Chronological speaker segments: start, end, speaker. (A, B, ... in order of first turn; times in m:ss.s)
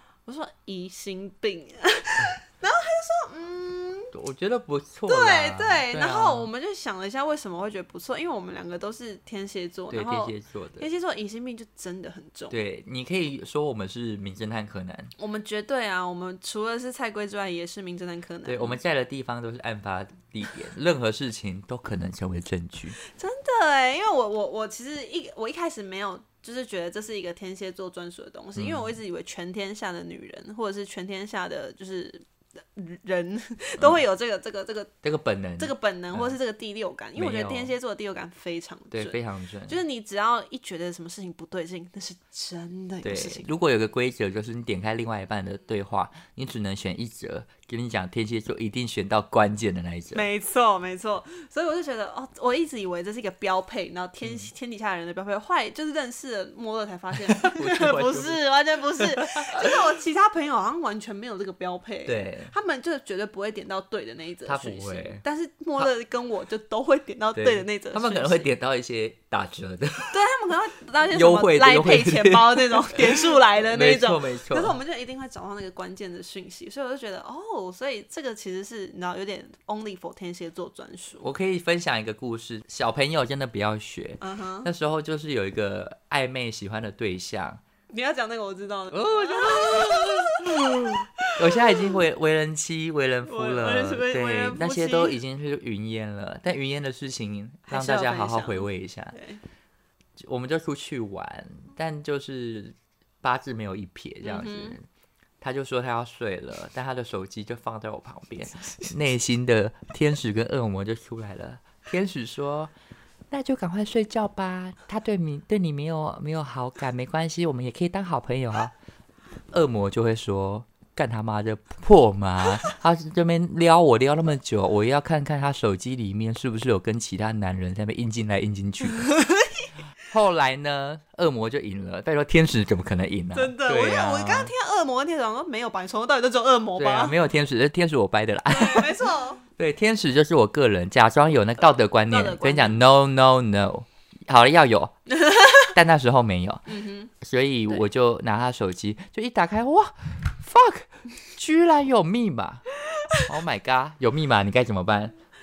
0:00.2-0:04.1 A
0:04.1-0:06.5 B
0:05.1-0:12.6 A
0:09.9-0:10.9 B
0:12.5-0:15.1 B
0:15.2-0:18.8 A
0:18.4-0:23.0 B
0:23.0-0:34.9 A
0:28.6-0:28.9 B
0:35.0-0:36.4 B
0:35.6-0:43.5 A
0:37.1-0:37.7 B
0:38.9-0:39.8 B
0:43.0-0:50.2 B
0:50.1-1:08.5 A
0:54.2-0:54.5 B
0:57.3-0:58.4 B
0:59.0-0:59.8 B
1:02.0-1:02.5 B
1:04.4-1:05.2 B
1:07.3-1:10.1 B
1:10.1-1:21.3 A
1:11.1-1:14.8 B
1:21.2-1:27.6 B
1:24.2-1:24.7 A
1:27.9-1:32.0 A
1:28.9-1:39.2 B
1:33.2-1:35.2 A
1:37.7-1:39.4 A
1:40.2-1:44.8 B
1:44.2-1:44.8 A
1:45.4-1:52.7 B
1:53.3-1:58.7 B
1:59.5-2:09.1 B
2:08.9-2:09.7 A
2:10.0-2:14.5 B
2:13.3-2:17.2 A
2:16.8-2:19.0 B
2:18.5-2:19.4 A
2:19.6-2:25.0 B
2:22.1-2:22.8 A
2:25.1-2:25.7 A
2:25.7-2:26.6 B
2:26.7-2:27.1 A
2:27.2-2:32.6 B
2:33.2-2:35.1 B